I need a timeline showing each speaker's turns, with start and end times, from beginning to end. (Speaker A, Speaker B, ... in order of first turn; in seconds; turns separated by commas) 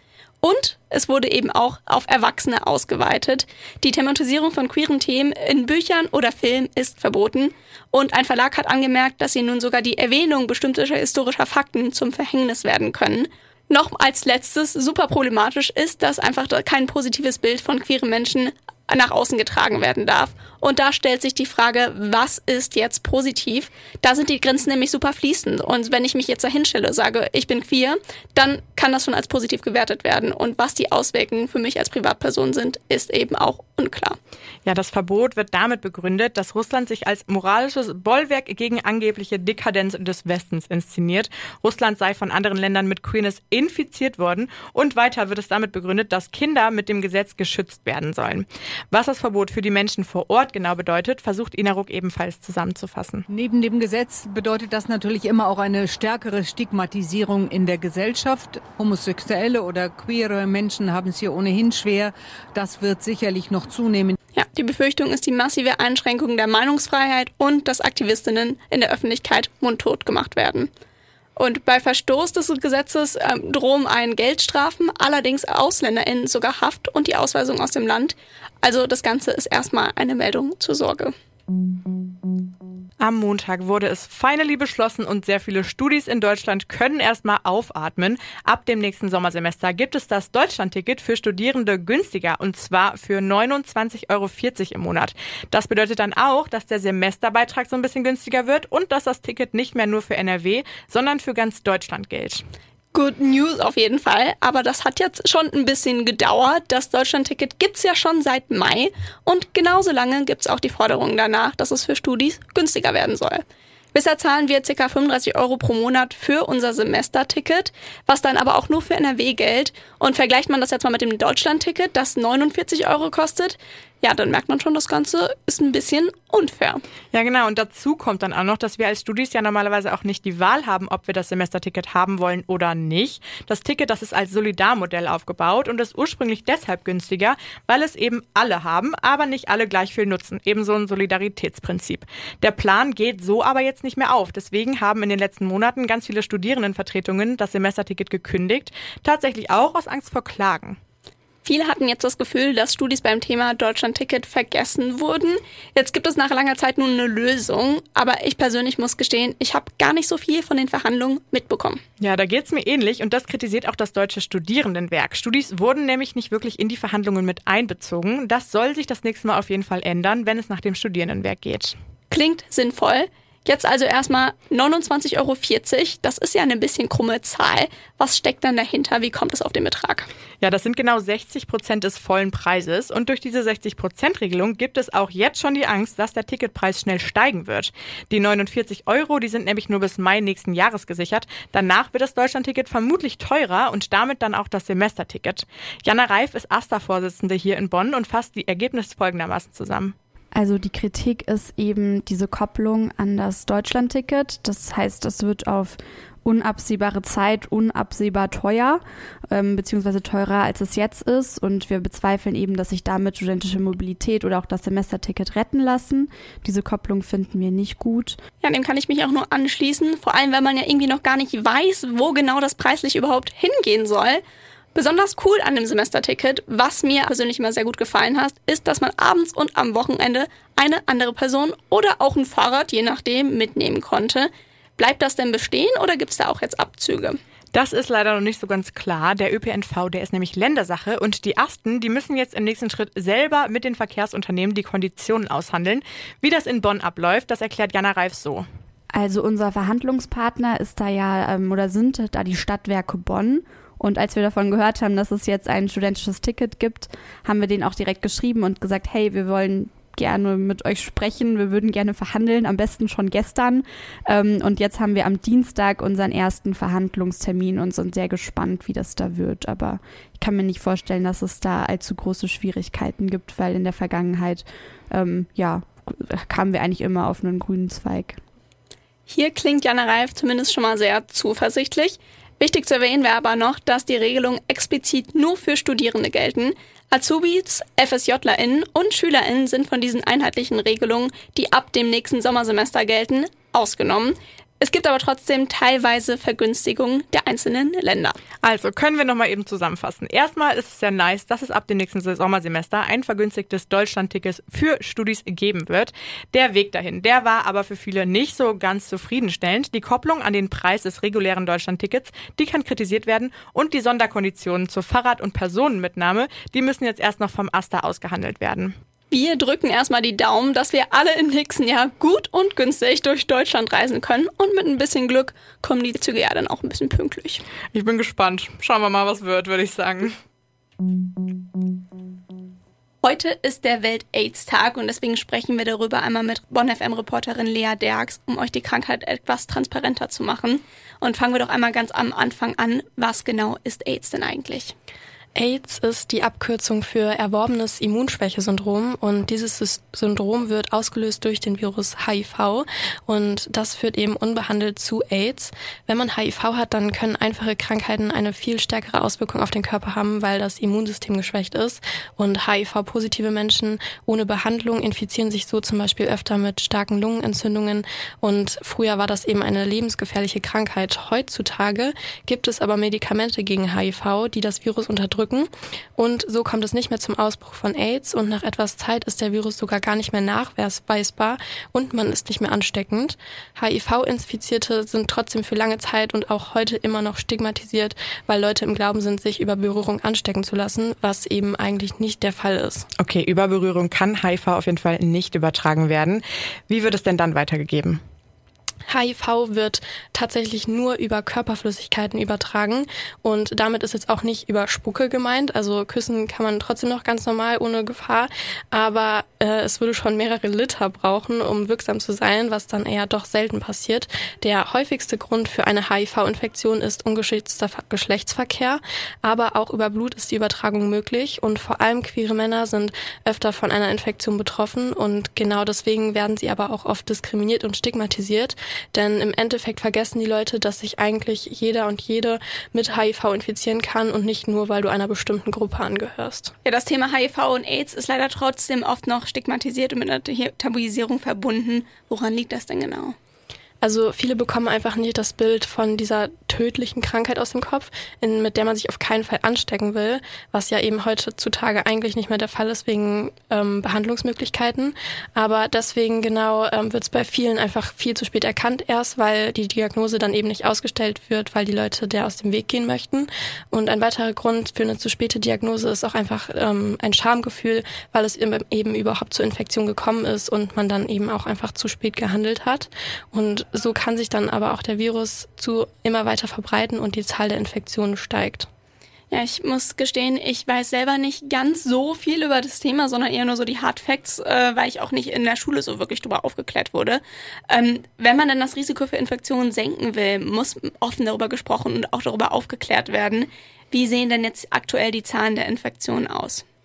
Speaker A: 0.4-34.2, Speaker B: 34.6-53.3, Speaker C: 53.3-64.2, Speaker A: 64.3-70.7, Speaker A: 71.3-81.1, Speaker B: 83.0-102.4, Speaker A: 102.9-126.8, Speaker B: 127.1-150.8, Speaker A: 151.4-161.8, Speaker B: 162.0-171.8, Speaker A: 172.1-180.1, Speaker B: 180.4-199.9, Speaker D: 200.3-218.2, Speaker A: 218.4-224.2, Speaker A: 224.8-237.2, Speaker B: 237.5-248.4, Speaker D: 248.9-278.2, Speaker A: 279.1-298.2, Speaker B: 298.4-318.8, Speaker A: 319.1-327.4, Speaker B: 327.7-330.2, Speaker A: 333.0-344.8, Speaker E: 345.3-392.9, Speaker B: 393.0-398.0, Speaker E: 398.9-436.5, Speaker A: 436.6-443.2, Speaker E: 443.8-478.7, Speaker A: 479.3-496.6